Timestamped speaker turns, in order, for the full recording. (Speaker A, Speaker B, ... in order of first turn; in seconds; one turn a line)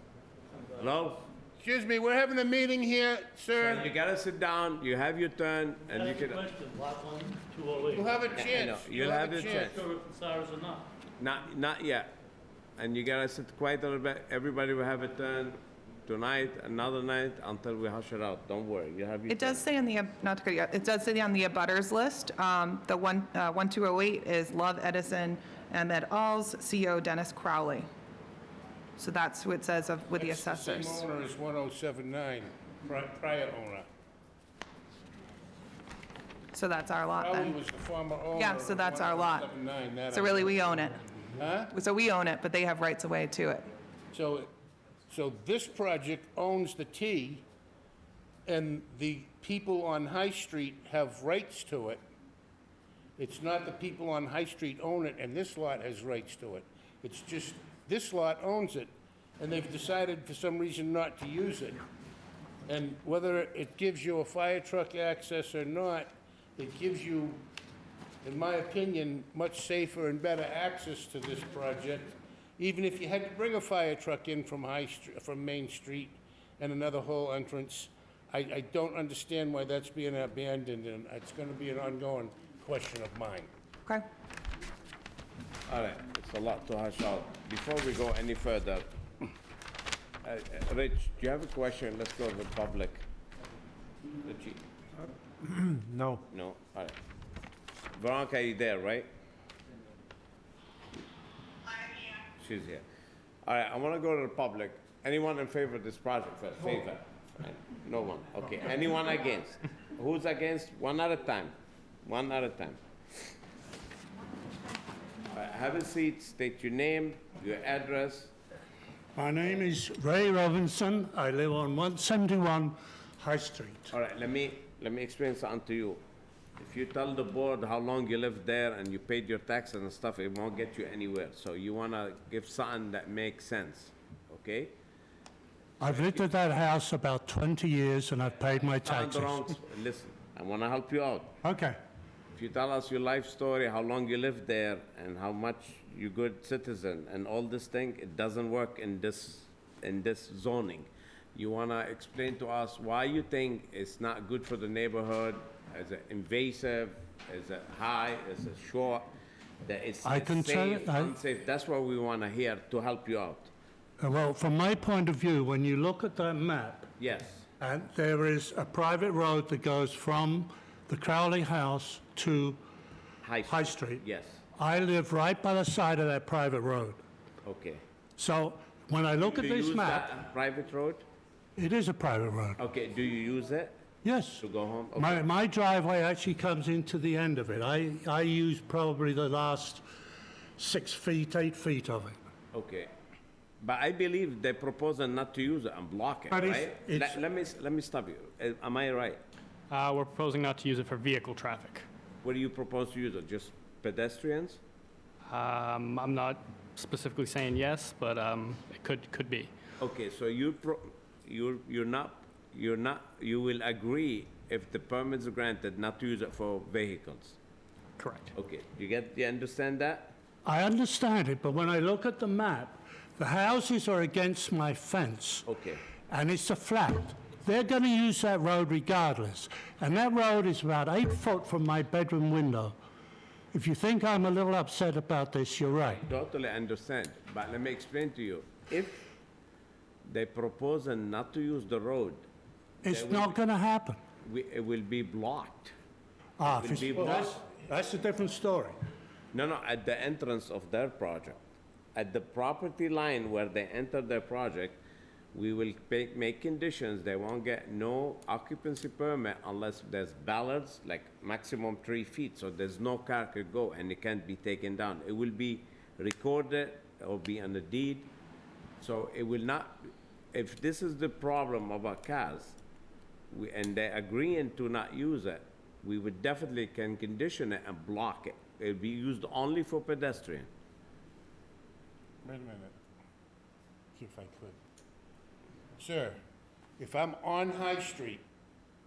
Speaker A: 0.8-1.2
Speaker B: 1.6-3.9
Speaker A: 3.6-6.5
Speaker C: 6.0-8.4
Speaker B: 7.8-9.7
Speaker A: 8.3-9.8
Speaker C: 9.7-10.8
Speaker A: 11.2-12.1
Speaker A: 12.8-19.7
Speaker D: 19.3-27.9
Speaker D: 29.0-31.0
Speaker B: 30.1-33.9
Speaker D: 36.5-37.5
Speaker B: 37.1-41.7
Speaker D: 38.3-39.5
Speaker D: 40.1-41.0
Speaker D: 41.7-43.7
Speaker B: 44.1-44.5
Speaker B: 45.1-47.4
Speaker B: 48.5-52.0
Speaker B: 53.2-61.8
Speaker B: 62.6-67.4
Speaker B: 68.2-83.5
Speaker A: 85.7-88.8
Speaker A: 90.2-93.0
Speaker A: 94.2-94.6
Speaker A: 96.3-97.0
Speaker A: 98.0-99.1
Speaker A: 102.4-102.8
Speaker A: 103.4-111.5
Speaker A: 112.0-112.8
Speaker A: 115.3-118.3
Speaker E: 119.1-123.9
Speaker A: 123.9-126.0
Speaker A: 126.6-134.7
Speaker E: 135.8-139.5
Speaker A: 135.8-136.3
Speaker A: 138.6-141.3
Speaker E: 141.4-141.8
Speaker A: 142.3-159.1
Speaker A: 159.6-163.5
Speaker E: 160.0-161.1
Speaker E: 164.0-166.9
Speaker A: 167.0-167.4
Speaker E: 167.6-172.6
Speaker A: 173.2-174.4
Speaker E: 173.4-174.0
Speaker E: 174.6-177.0
Speaker A: 177.4-177.8
Speaker E: 178.2-180.1
Speaker A: 179.2-181.0
Speaker E: 181.6-182.6
Speaker A: 182.6-183.7
Speaker E: 184.0-184.4
Speaker A: 184.4-185.2
Speaker E: 184.9-189.8
Speaker E: 190.6-192.2
Speaker A: 192.5-192.9
Speaker A: 193.6-199.2
Speaker E: 196.3-197.2
Speaker F: 199.7-201.9
Speaker A: 202.2-204.6
Speaker F: 205.3-209.5
Speaker A: 209.8-217.4
Speaker F: 218.0-218.3
Speaker A: 218.3-220.1
Speaker E: 220.4-225.5
Speaker A: 225.4-225.8
Speaker E: 226.1-232.7
Speaker E: 233.5-236.0
Speaker A: 235.8-239.0
Speaker A: 240.1-242.2
Speaker E: 242.8-244.0
Speaker A: 242.8-243.4
Speaker A: 244.2-245.7
Speaker E: 246.4-248.8
Speaker A: 246.5-247.3
Speaker A: 249.3-251.4
Speaker A: 251.9-254.8
Speaker A: 255.3-268.1
Speaker A: 268.8-272.6
Speaker A: 273.3-280.5
Speaker B: 282.2-282.8
Speaker B: 283.9-284.6
Speaker B: 285.8-286.2
Speaker B: 286.8-288.2